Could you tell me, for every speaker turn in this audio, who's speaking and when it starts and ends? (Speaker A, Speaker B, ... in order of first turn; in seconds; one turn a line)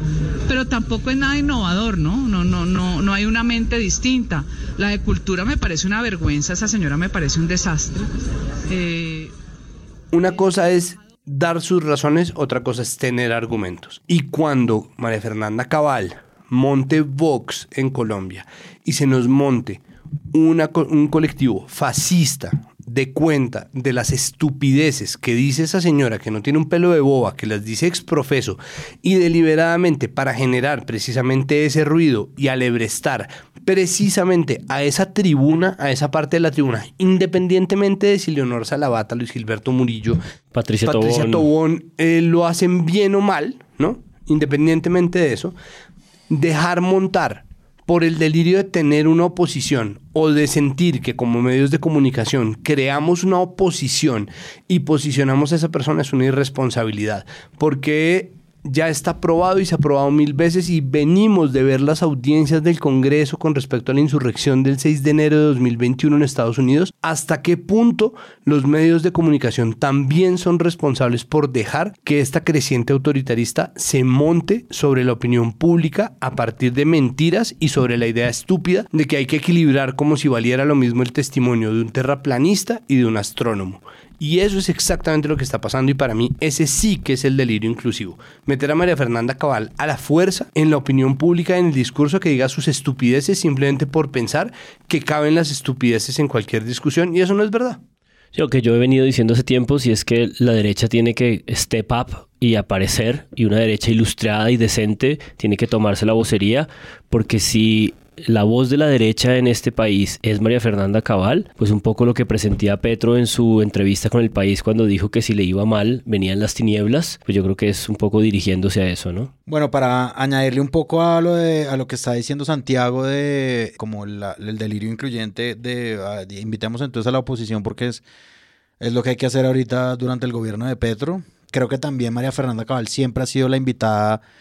Speaker A: 0.5-8.1
Speaker A: 8.7-9.3
Speaker B: 10.1-40.2
Speaker C: 40.5-41.5
Speaker B: 40.9-45.5
Speaker B: 46.3-97.8
Speaker C: 98.3-119.3
Speaker D: 119.5-128.0
Speaker D: 128.8-134.2